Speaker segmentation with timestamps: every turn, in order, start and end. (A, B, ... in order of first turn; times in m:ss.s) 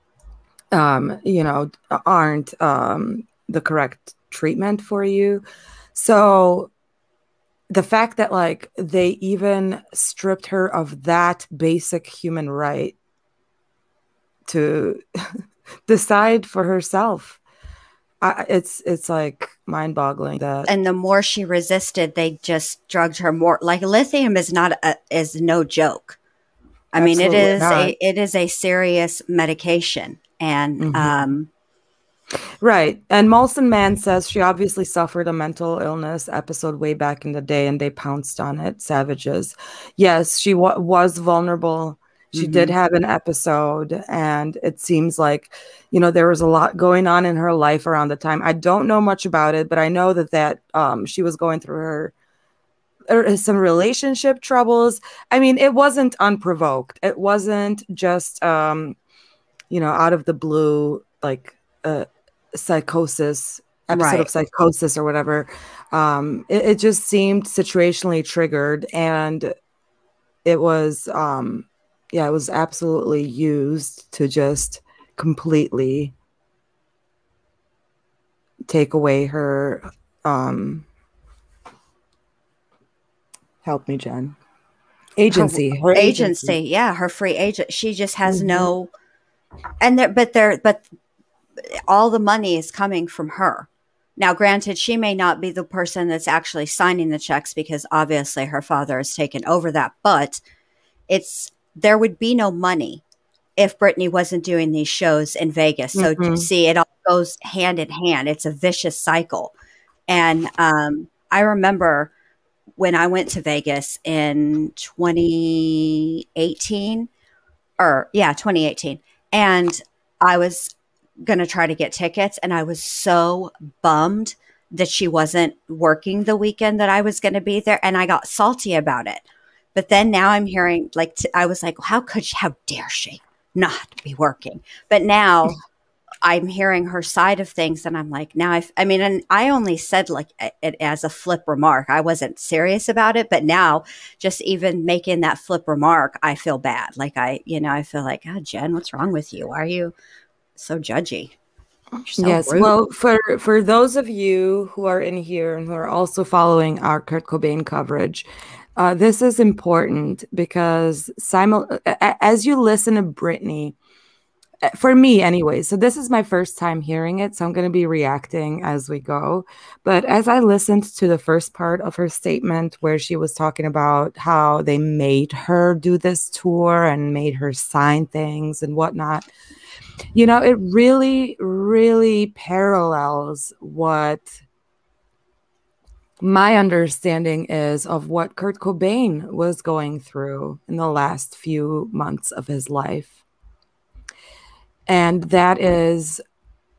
0:00.7-0:06.7 A
0:07.7-0:13.0 A
0:14.5-0:17.4 A
0:18.2-0:20.7 A
0:20.7-0:26.2 B
0:26.9-0:31.5 B
0:26.9-0:27.9 A
0:30.8-0:31.2 A
0:32.6-0:52.1 A
0:42.3-0:42.7 B
0:53.1-0:59.0 A
0:59.7-1:09.5 A
1:03.9-1:04.3 B
1:10.4-1:16.1 A
1:18.6-1:20.9 A
1:23.6-1:24.4 A
1:25.2-1:26.6 A
1:25.3-1:28.9 B
1:28.3-1:28.7 A
1:29.8-1:30.8 B
1:31.9-1:40.4 B
1:41.1-1:43.0 B
1:43.6-1:49.5 B
1:46.0-1:46.5 A
1:50.1-1:52.1 B
1:52.8-1:57.1 B
1:57.8-2:09.2 B
2:09.7-2:15.6 B
2:16.2-2:29.9 B
2:30.6-2:31.3 B
2:32.0-2:32.7 B
2:32.2-2:43.8 A
2:44.6-2:59.3 A
3:00.1-3:04.3 A
3:06.2-3:13.2 A
3:14.9-3:16.2 A